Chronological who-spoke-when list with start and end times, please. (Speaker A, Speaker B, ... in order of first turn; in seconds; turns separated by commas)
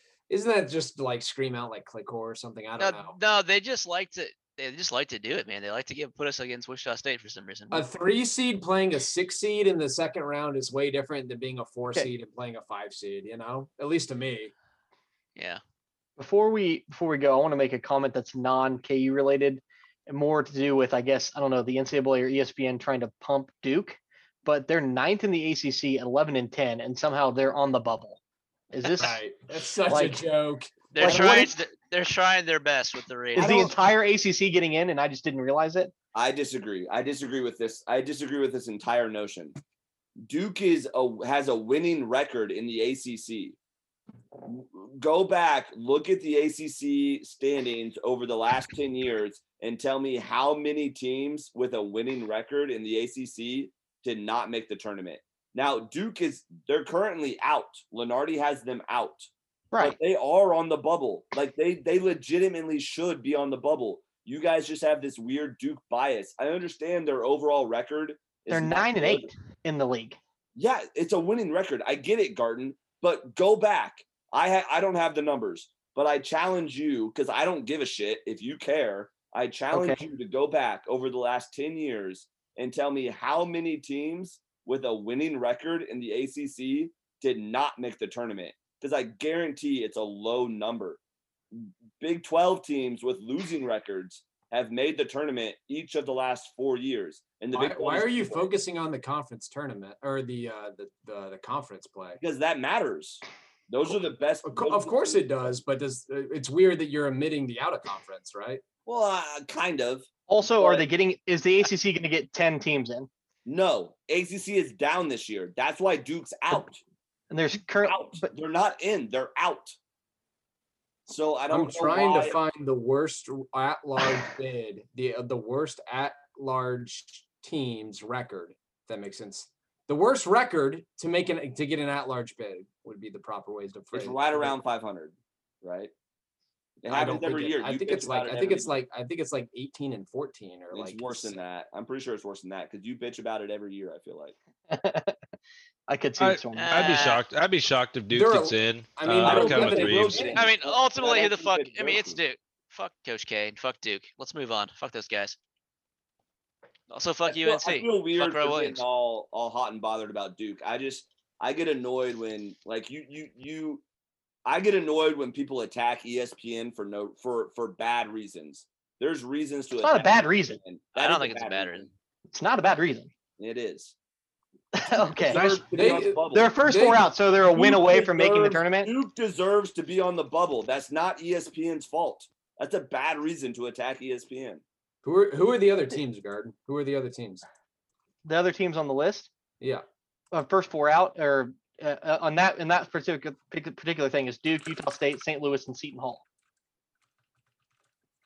Speaker A: 0.3-3.2, Speaker B: 2.8-7.8, Speaker A: 7.7-14.5, Speaker B: 15.4-15.6, Speaker C: 16.2-28.2, Speaker C: 28.7-29.2, Speaker A: 28.9-31.2, Speaker C: 29.9-30.3, Speaker B: 30.9-33.8, Speaker C: 31.0-31.5, Speaker C: 33.4-35.9, Speaker D: 36.1-39.5, Speaker D: 40.3-43.6, Speaker D: 44.4-69.3, Speaker C: 68.5-70.2, Speaker D: 70.6-91.0, Speaker C: 79.7-80.0, Speaker D: 91.5-98.5, Speaker A: 97.5-102.2, Speaker D: 102.2-105.3, Speaker A: 104.5-108.6, Speaker D: 108.9-110.9, Speaker C: 110.3-113.1, Speaker D: 113.5-116.8, Speaker C: 117.3-118.3, Speaker D: 117.8-119.8, Speaker D: 121.1-122.4, Speaker A: 121.5-134.6, Speaker D: 133.9-135.9, Speaker D: 136.8-138.8, Speaker A: 136.9-141.4, Speaker D: 140.7-144.4, Speaker C: 144.7-145.2, Speaker C: 145.9-147.1, Speaker E: 146.2-150.2, Speaker B: 146.5-147.2, Speaker A: 148.1-150.4, Speaker D: 149.2-152.2, Speaker B: 150.3-155.4, Speaker B: 156.9-158.8, Speaker D: 157.3-163.8, Speaker D: 164.5-171.9, Speaker C: 169.8-170.6, Speaker B: 170.9-171.9, Speaker C: 172.3-173.1, Speaker D: 173.4-173.9, Speaker C: 174.7-175.5, Speaker D: 175.2-176.5, Speaker E: 175.3-175.8, Speaker A: 175.8-177.1, Speaker C: 176.2-178.9, Speaker D: 177.5-184.6, Speaker A: 185.0-187.5, Speaker C: 188.2-189.3, Speaker A: 189.6-189.8, Speaker C: 190.3-196.2